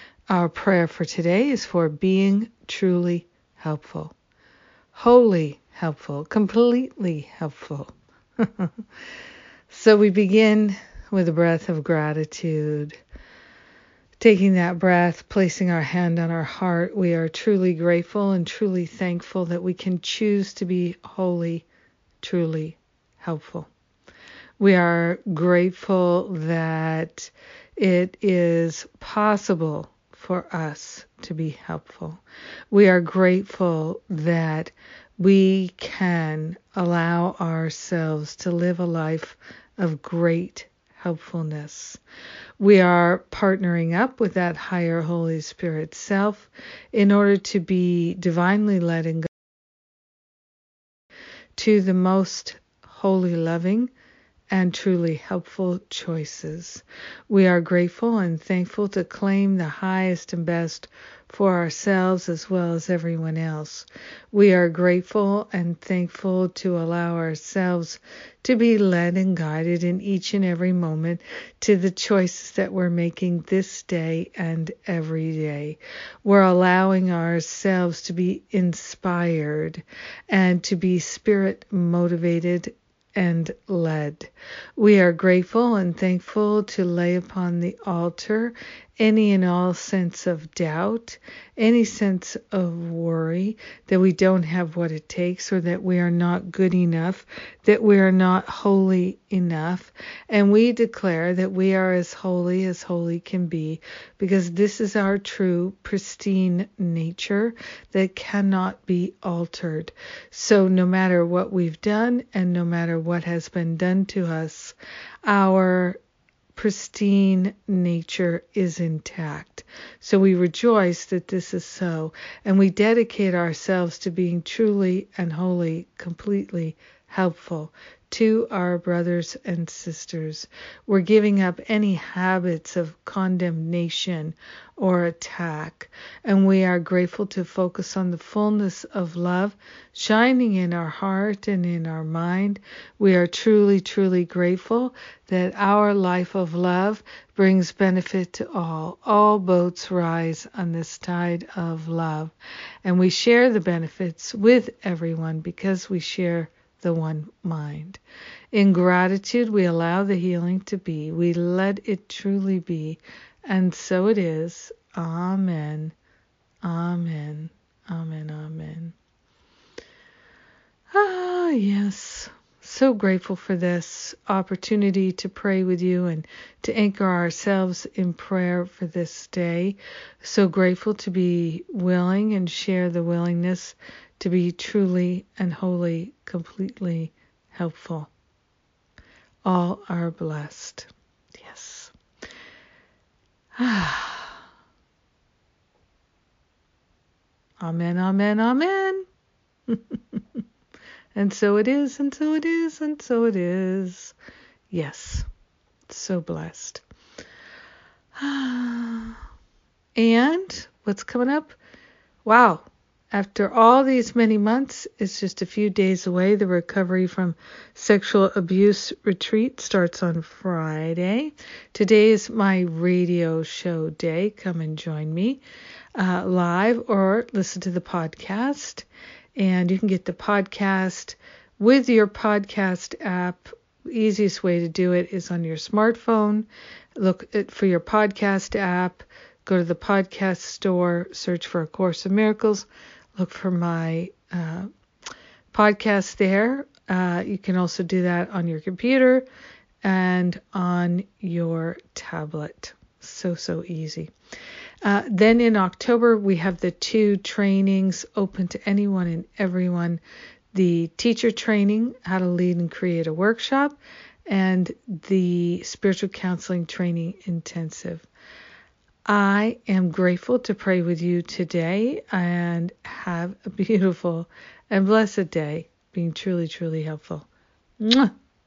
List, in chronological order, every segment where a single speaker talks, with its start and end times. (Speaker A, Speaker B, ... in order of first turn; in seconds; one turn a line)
Speaker A: 0.3-4.1
Speaker A: 4.9-8.9
Speaker A: 9.7-13.0
Speaker A: 14.2-21.6
Speaker A: 22.2-23.7
Speaker A: 24.6-42.0
Speaker A: 42.6-49.3
Speaker A: 51.5-53.9
Speaker A: 54.5-116.0
Speaker A: 116.5-158.0
Speaker A: 158.5-165.9
Speaker A: 166.6-168.9
Speaker A: 170.9-188.1
Speaker A: 189.4-191.9
Speaker A: 193.6-194.4
Speaker A: 197.6-199.0
Speaker A: 199.7-200.4
Speaker A: 201.1-204.1
Speaker A: 204.7-205.2
Speaker A: 205.9-206.8
Speaker A: 208.2-209.2
Speaker A: 209.9-211.6
Speaker A: 212.2-225.4
Speaker A: 225.9-244.7
Speaker A: 245.5-249.2
Speaker A: 249.8-254.1
Speaker A: 254.8-260.0
Speaker A: 260.5-268.1
Speaker A: 269.1-277.3
Speaker A: 277.8-278.1